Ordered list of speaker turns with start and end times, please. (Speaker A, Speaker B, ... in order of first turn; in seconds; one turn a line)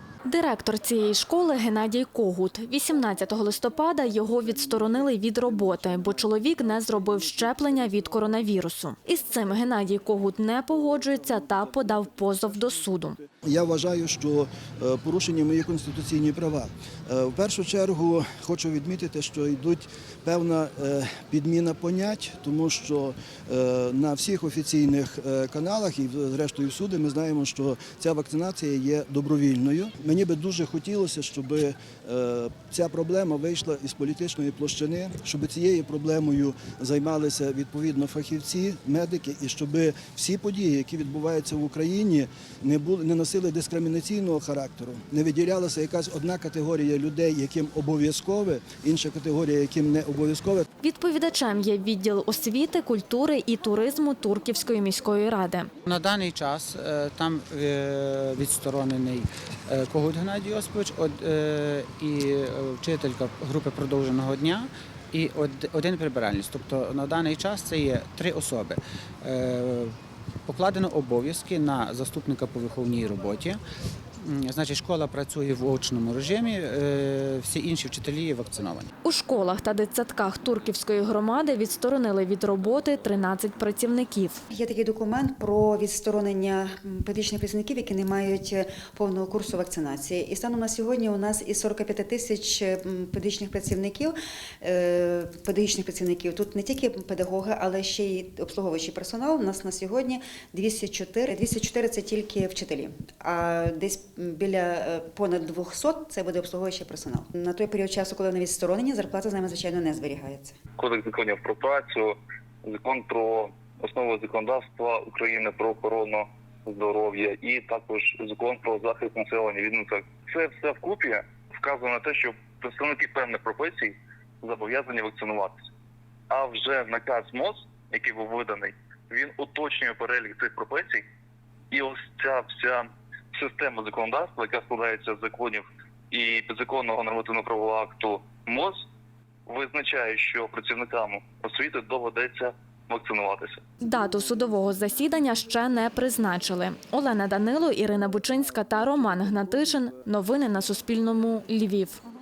Speaker A: 0.3-13.2
Speaker B: 4.5-8.3
Speaker B: 10.8-50.7
Speaker A: 50.8-55.7
Speaker C: 55.9-69.9
Speaker C: 70.5-73.6
Speaker C: 74.2-78.9
Speaker A: 79.0-84.4
Speaker D: 84.5-110.6
Speaker E: 110.8-125.6
Speaker E: 126.3-131.0
Speaker E: 131.7-138.8
Speaker E: 139.5-143.6
Speaker A: 143.8-152.0
Speaker B: 148.7-149.5